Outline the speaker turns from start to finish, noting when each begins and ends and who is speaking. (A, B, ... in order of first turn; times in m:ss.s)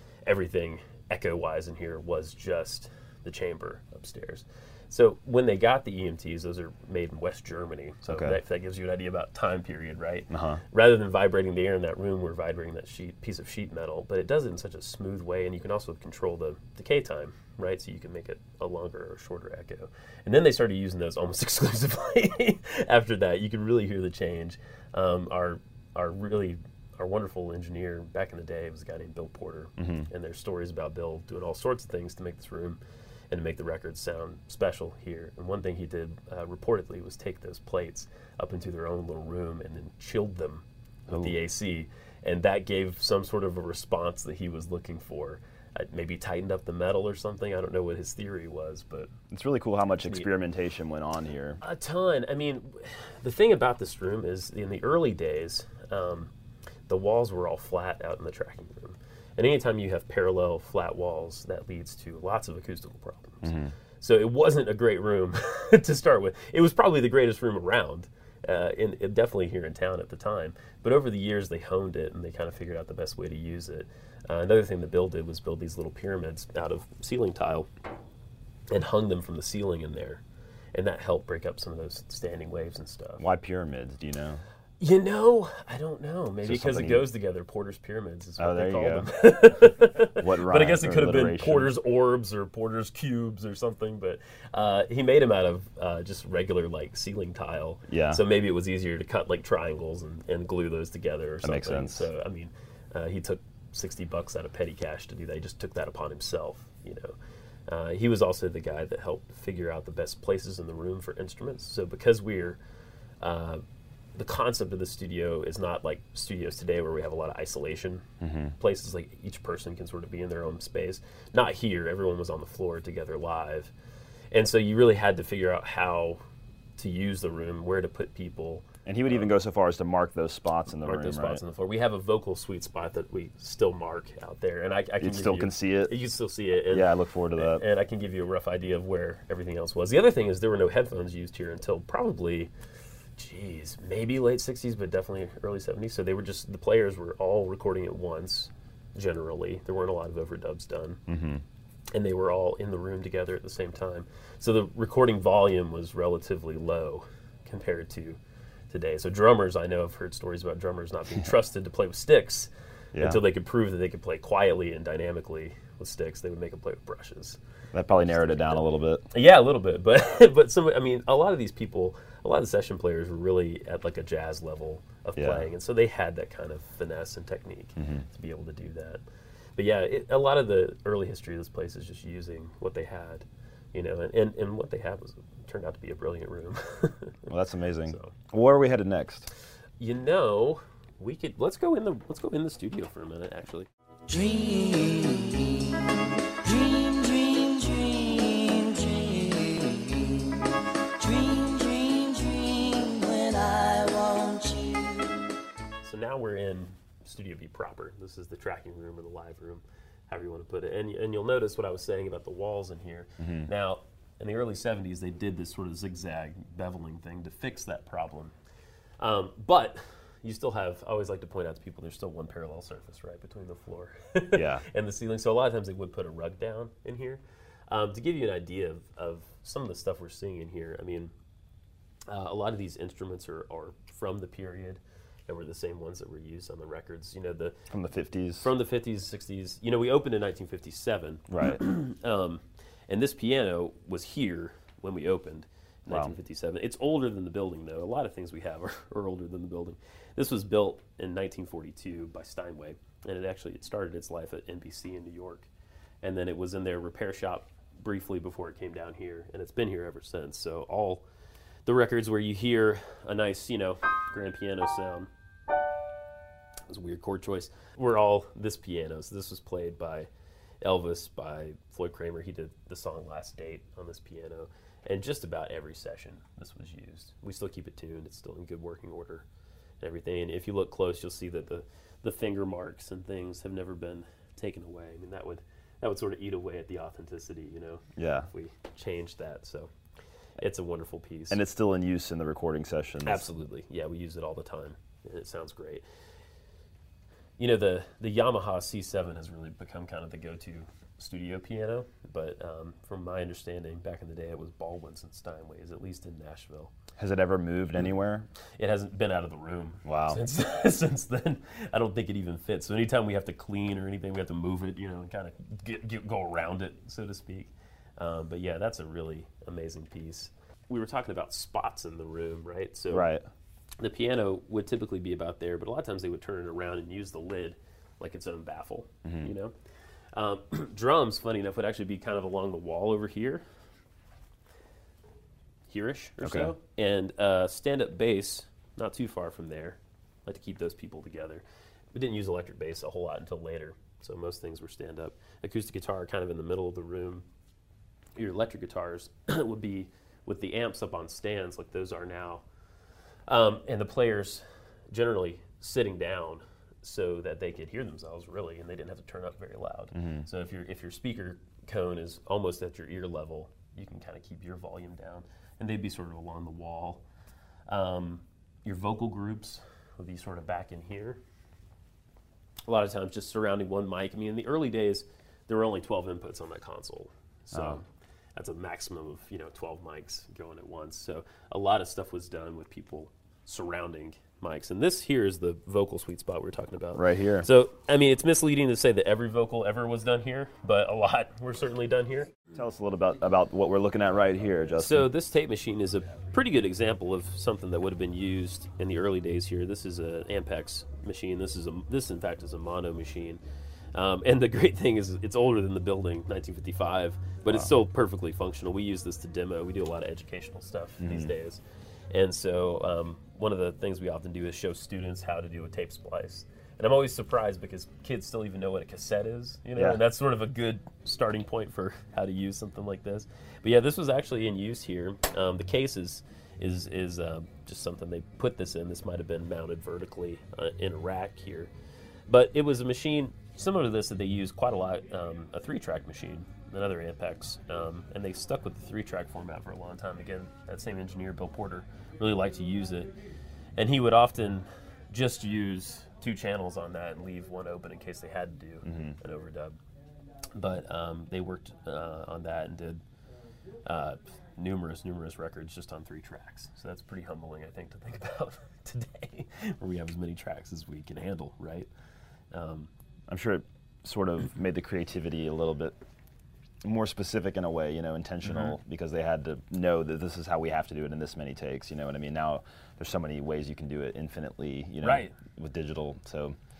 0:00.2-0:49.1 A
0:08.1-0:08.4 B
0:10.3-0:10.6 B
0:29.8-0:30.1 B
0:49.3-0:51.6 B
0:51.6-0:56.3 A
0:56.9-1:17.7 A
1:03.4-1:03.7 B
1:18.7-1:20.2 A
1:20.7-1:23.2 A
1:23.2-1:24.4 B
1:24.8-1:47.1 A
1:26.4-1:27.1 B
1:28.4-1:31.7 B
1:37.9-1:38.2 B
1:41.4-1:42.1 B
1:47.7-1:52.6 A
1:53.2-1:53.6 A
1:54.1-1:58.0 A
1:58.2-1:58.5 B
1:58.6-2:03.7 A
2:04.3-2:06.2 A
2:06.8-2:09.3 A
2:08.8-2:11.4 B
2:10.8-2:22.5 A
2:15.0-2:16.0 B
2:16.7-2:17.6 B
2:23.2-2:31.0 A
2:31.1-2:31.4 B
2:31.9-2:38.2 A
2:38.7-2:47.4 A
2:42.9-2:43.2 B
2:47.7-2:49.1 B
2:48.0-2:59.0 A
2:55.2-2:55.5 B
2:57.8-2:58.0 B
2:59.6-3:07.3 A
3:07.3-3:09.3 B
3:07.9-3:08.1 A
3:09.8-3:13.7 A
3:14.1-3:20.3 C
3:21.0-3:25.3 C
3:25.8-3:38.3 A
3:33.2-3:33.5 B
3:39.0-3:51.1 A
3:44.3-3:44.6 B
3:52.1-3:57.7 A
3:57.7-3:58.5 B
3:58.4-4:15.5 A
4:01.3-4:01.6 B
4:05.9-4:06.1 B
4:16.0-4:21.0 A
4:21.6-4:25.1 A
4:26.7-4:30.1 A
4:30.6-4:39.2 A
4:39.8-4:49.7 A
4:48.0-4:48.3 B
4:50.4-4:51.4 A
4:51.3-4:53.3 B
4:53.0-4:55.8 A
4:57.4-5:06.7 A
5:07.0-5:08.3 B
5:08.6-5:23.1 A
5:09.8-5:10.2 B
5:22.9-5:23.2 B
5:23.8-5:29.5 A
5:29.0-5:29.3 B
5:30.1-5:33.4 A
5:35.7-5:47.2 A
5:36.2-5:36.5 B
5:48.2-5:52.4 A
5:53.3-6:07.0 A
5:59.9-6:00.2 B
6:07.7-6:11.2 A
6:12.6-6:32.4 A
6:17.5-6:17.8 B
6:26.9-6:27.5 B
6:32.5-6:35.1 B
6:34.8-6:43.4 A
6:43.9-7:11.7 A
6:51.0-6:51.3 B
7:12.3-7:23.1 A
7:23.8-7:29.8 A
7:28.8-7:29.2 B
7:30.5-7:33.0 A
7:33.8-7:41.9 A
7:42.5-7:42.9 A
7:43.3-7:45.9 B
7:46.8-7:56.6 B
7:55.0-7:55.4 A